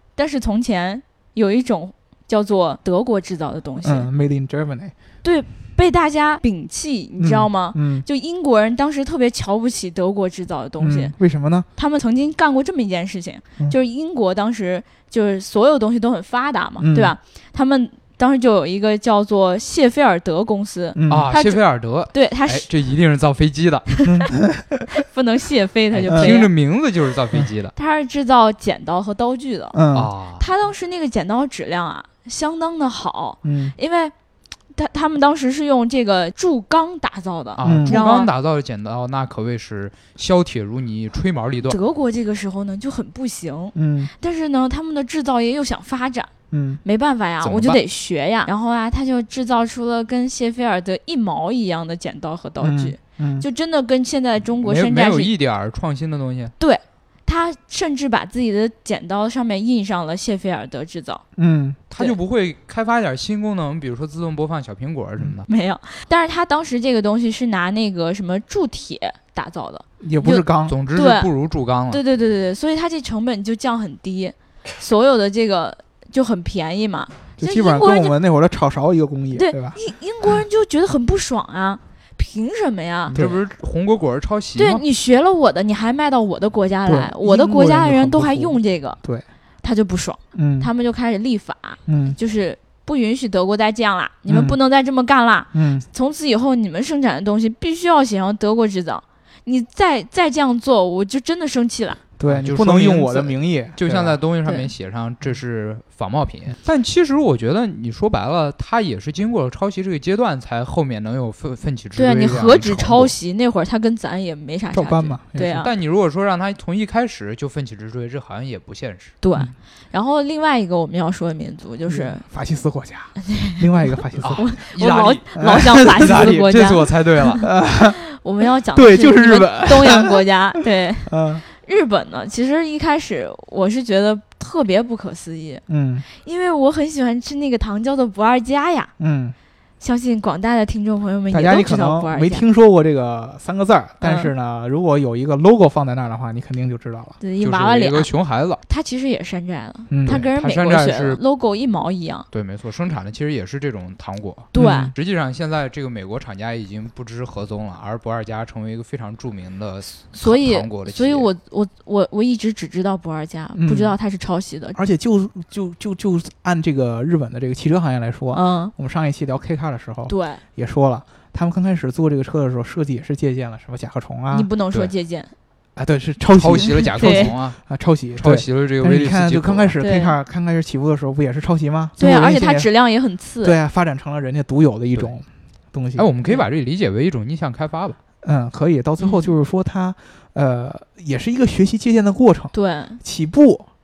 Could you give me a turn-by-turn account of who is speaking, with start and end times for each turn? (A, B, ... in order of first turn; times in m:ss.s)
0:00.2-0:04.1 A
0:03.8-0:04.9 B
0:05.2-0:11.1 A
0:07.2-0:08.1 B
0:10.8-0:11.7 B
0:11.8-0:22.7 A
0:16.8-0:17.2 B
0:21.0-0:21.3 B
0:21.1-0:24.0 C
0:23.9-0:24.2 A
0:24.0-0:24.9 B
0:25.0-0:26.5 A
0:25.9-0:26.3 B
0:26.1-0:27.7 C
0:27.8-0:29.8 A
0:29.7-0:30.1 B
0:29.9-0:30.4 C
0:30.4-0:34.1 A
0:33.4-0:33.8 B
0:34.7-0:38.3 A
0:37.6-0:41.8 C
0:37.6-0:38.0 B
0:41.7-0:46.3 A
0:43.8-0:44.1 B
0:46.5-0:46.8 B
0:46.8-0:55.3 A
0:47.4-0:47.8 C
0:52.6-0:53.5 B
0:54.6-0:56.5 C
0:56.6-1:01.2 A
1:01.4-1:01.8 B
1:01.9-1:05.5 C
1:05.5-1:11.3 A
1:10.0-1:10.8 B
1:10.7-1:12.0 C
1:11.9-1:18.1 A
1:17.4-1:19.8 B
1:19.3-1:23.2 A
1:23.1-1:24.8 C
1:23.1-1:23.4 B
1:24.6-1:29.0 A
1:26.9-1:29.2 B
1:29.6-1:42.0 A
1:30.3-1:30.7 B
1:31.9-1:32.2 B
1:34.3-1:34.6 B
1:35.5-1:35.9 B
1:42.2-1:44.2 B
1:42.2-1:53.1 C
1:44.4-1:44.7 A
1:52.0-1:55.7 A
1:54.7-1:55.7 B
1:55.5-1:59.1 C
1:59.2-2:02.2 A
2:01.9-2:04.5 B
2:03.2-2:07.4 A
2:04.2-2:07.5 C
2:05.4-2:06.6 B
2:07.4-2:08.0 B
2:08.1-2:18.9 A
2:08.7-2:10.1 B
2:11.1-2:11.4 B
2:15.7-2:16.0 B
2:19.0-2:19.4 B
2:19.8-2:22.4 A
2:21.3-2:27.2 B
2:24.0-2:24.3 A
2:27.2-2:28.1 A
2:27.4-2:28.6 C
2:28.6-2:32.3 A
2:29.9-2:30.2 B
2:30.0-2:31.2 C
2:32.3-2:41.3 C
2:34.5-2:34.9 A
2:34.6-2:34.9 B
2:40.1-2:44.8 A
2:43.6-2:44.0 B
2:44.8-2:54.5 B
2:48.3-2:48.7 A
2:50.1-2:50.4 A
2:54.3-2:55.3 A
2:55.8-3:02.7 B
2:56.4-2:57.6 C
2:56.9-2:57.3 A
2:58.2-2:59.8 C
2:59.8-3:00.2 A
3:02.0-3:03.6 A
3:03.4-3:06.1 B
3:06.0-3:08.0 C
3:08.2-3:13.7 B
3:09.0-3:09.3 A
3:12.5-3:13.0 A